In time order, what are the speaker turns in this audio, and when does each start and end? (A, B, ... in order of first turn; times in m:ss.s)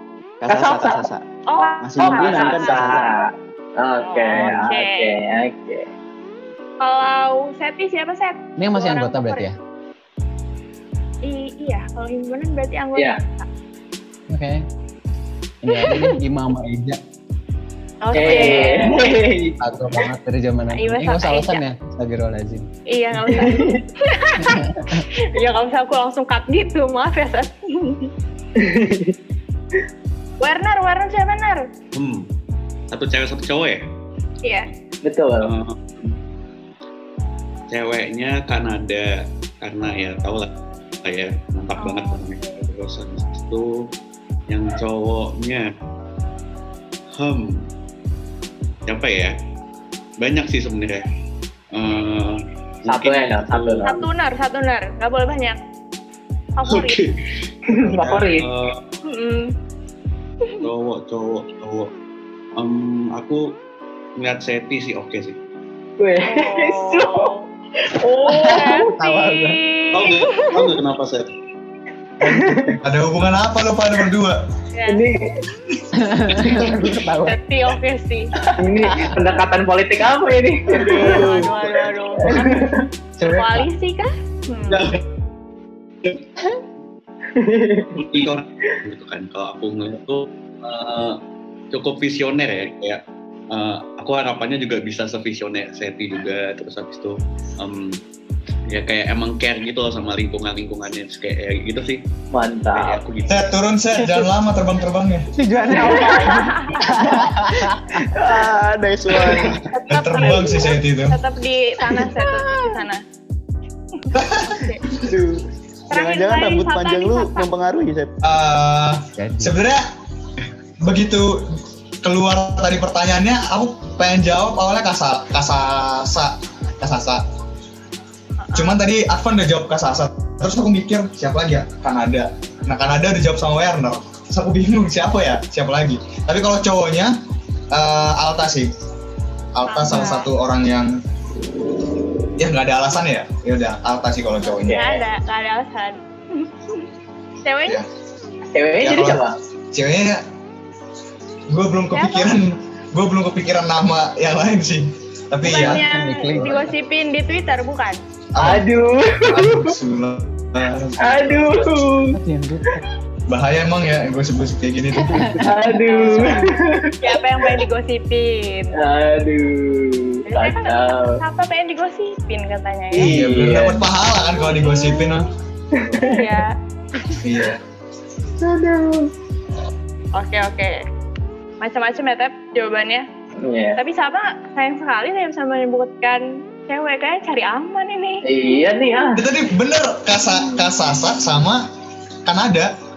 0:00.4-0:01.2 A
0:00.5-0:01.0 B
0:01.5-0:03.0 C
0:01.8-0:03.0 A
0:02.0-0:05.9 B
0:04.0-0:05.1 C
0:06.8-0:09.4 C
0:08.6-0:09.6 D
0:11.2-0:13.5 C
0:14.3-0:14.6 D
0:15.6-0:17.0 D
0:15.7-0:16.1 C
0:18.0-0:19.1 C
0:18.1-0:19.6 B
0:18.1-0:18.7 D
0:19.6-0:22.6 D
0:20.7-0:21.6 C
0:22.9-0:24.6 C
0:23.3-0:23.8 B
0:24.4-0:25.0 D
0:25.2-0:28.1 C
0:28.6-0:29.1 B
0:30.4-0:31.7 C
0:31.9-0:32.2 E
0:32.9-0:33.8 E
0:35.0-0:35.5 B
0:35.4-0:36.2 E
0:37.7-0:40.5 E
0:41.0-0:43.7 E
0:41.8-0:42.6 C
0:44.5-0:45.7 E
0:47.2-0:47.6 E
0:48.9-0:49.3 E
0:50.2-0:51.0 E
0:51.7-0:53.9 E
0:52.9-0:54.1 B
0:53.8-0:55.6 C
0:56.6-0:57.0 C
0:56.7-0:58.8 E
0:57.7-0:58.5 B
0:59.1-0:59.5 C
1:00.6-1:01.9 E
1:02.6-1:03.4 E
1:04.2-1:05.4 E
1:06.0-1:07.3 B
1:06.2-1:07.4 C
1:07.9-1:08.9 B
1:08.4-1:10.7 C
1:08.9-1:09.6 D
1:09.9-1:11.3 E
1:12.2-1:12.8 B
1:12.2-1:12.7 A
1:12.8-1:14.4 F
1:14.7-1:15.0 C
1:14.9-1:15.2 B
1:16.0-1:17.4 D
1:16.4-1:16.7 B
1:17.2-1:18.3 C
1:18.6-1:21.3 B
1:18.8-1:19.1 D
1:20.8-1:22.7 C
1:20.9-1:21.5 A
1:22.2-1:22.8 B
1:23.2-1:23.6 D
1:23.4-1:24.9 C
1:27.3-1:28.0 B
1:27.9-1:31.2 E
1:31.7-1:38.0 E
1:38.7-1:42.0 E
1:42.3-1:43.0 B
1:42.7-1:43.5 E
1:43.3-1:45.3 F
1:45.4-1:48.1 D
1:45.7-1:47.2 B
1:46.0-1:46.7 C
1:48.1-1:49.6 A
1:49.2-1:49.6 E
1:49.7-1:53.0 C
1:49.9-1:51.2 F
1:54.0-1:54.9 C
1:54.1-1:55.0 F
1:55.0-1:58.1 A
1:55.9-1:57.4 C
1:58.2-1:59.8 F
1:59.2-1:59.6 D
2:00.8-2:07.2 F
2:08.4-2:08.8 C
2:08.5-2:17.1 F
2:17.7-2:18.7 F
2:19.5-2:20.9 F
2:19.7-2:20.3 C
2:22.4-2:24.8 F
2:24.4-2:26.8 C
2:24.5-2:25.0 B
2:27.4-2:27.8 C
2:28.5-2:29.3 B
2:28.8-2:30.2 F
2:31.5-2:35.8 F
2:31.9-2:32.3 C
2:35.4-2:38.0 C
2:35.4-2:36.7 D
2:38.4-2:38.6 F
2:38.4-2:39.7 B
2:39.2-2:41.6 F
2:41.0-2:42.2 B
2:42.1-2:42.8 D
2:43.3-2:45.4 F
2:45.0-2:45.4 D
2:45.4-2:47.5 B
2:45.7-2:48.7 C
2:48.8-2:51.2 B
2:50.3-2:53.2 C
2:53.0-2:53.9 B
2:53.0-2:55.3 F
2:54.4-2:55.2 C
2:55.7-2:56.4 B
2:56.0-2:57.2 C
2:57.2-2:57.6 F
2:58.4-2:59.1 B
3:00.2-3:00.8 C
3:01.6-3:03.0 C
3:03.4-3:03.8 B
3:03.8-3:09.0 C
3:08.2-3:09.2 B
3:09.2-3:11.6 F
3:12.2-3:12.7 F